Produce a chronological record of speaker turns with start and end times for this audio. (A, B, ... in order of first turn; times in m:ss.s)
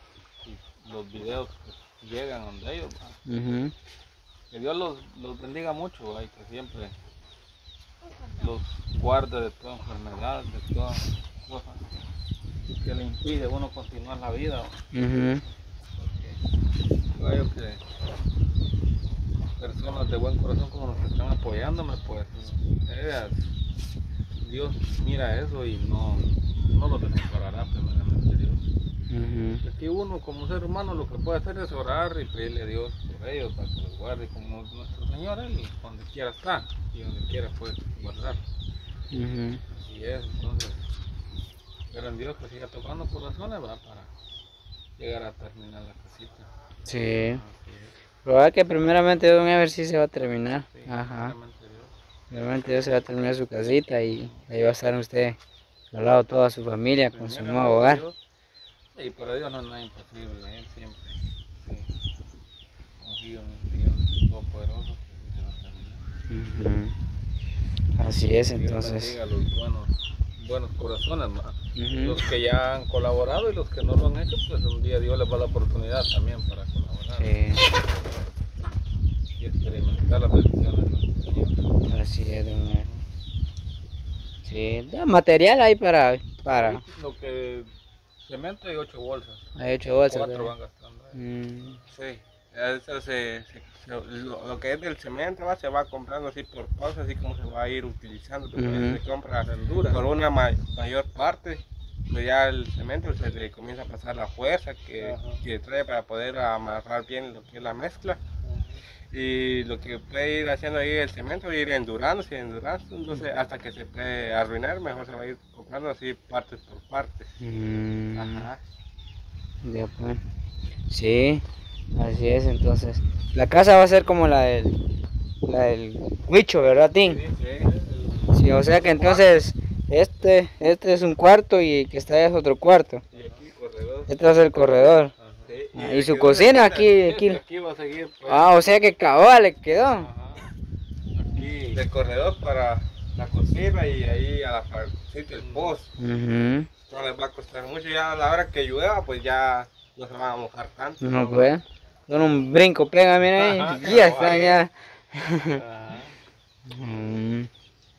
0:00.4-0:03.2 A
0:03.3-0:03.7 B
0:04.5-0:07.0 A
0:08.3-0:11.8 A
0:12.8-0:14.8 A
0:14.9-0:15.4 B
0:16.0-0:16.4 A
0:17.1-0:17.8 A
0:19.6-0:23.4 A
0:24.4-0:28.6 A
0:29.1-0:29.6 B
0:29.6-0:38.4 A
0:39.1-0:39.6 B
0:39.7-0:40.8 A
0:41.9-0:44.1 A
0:45.0-0:46.5 A
0:46.9-0:47.4 B
0:47.1-0:48.0 A
0:48.2-0:51.4 B
0:50.7-0:51.9 A
0:52.3-0:55.4 B
0:54.1-0:54.5 A
0:55.9-0:58.0 B
0:57.1-0:58.2 A
0:59.0-1:01.9 A
1:03.0-1:06.1 A
1:06.3-1:06.9 B
1:08.0-1:09.1 B
1:08.5-1:17.6 A
1:11.8-1:12.2 B
1:17.2-1:17.7 B
1:19.4-1:21.6 A
1:21.9-1:22.9 B
1:24.4-1:26.8 B
1:26.5-1:27.7 A
1:28.2-1:29.4 A
1:29.6-1:30.5 B
1:30.1-1:31.2 A
1:31.2-1:31.8 B
1:31.9-1:48.2 C
1:38.6-1:39.0 B
1:39.4-1:40.0 A
1:45.0-1:45.4 A
1:48.4-1:48.8 A
1:49.1-1:57.3 C
1:57.4-1:58.5 B
1:58.2-1:58.6 C
1:59.6-2:00.2 B
2:00.9-2:01.4 B
2:02.0-2:04.8 B
2:05.4-2:07.2 B
2:07.0-2:09.2 A
2:08.3-2:13.0 B
2:13.1-2:13.5 A
2:13.2-2:14.1 C
2:14.1-2:15.1 B
2:15.2-2:15.5 A
2:15.5-2:17.0 C
2:15.8-2:17.4 B
2:17.0-2:18.6 A
2:18.3-2:20.1 B
2:19.8-2:20.5 A
2:21.2-2:21.8 A
2:21.7-2:25.9 C
2:25.4-2:25.8 A
2:26.0-2:26.7 B
2:26.9-2:31.4 C
2:31.0-2:35.6 B
2:33.3-2:34.6 A
2:33.9-2:34.6 C
2:35.5-2:36.2 A
2:36.7-2:37.5 B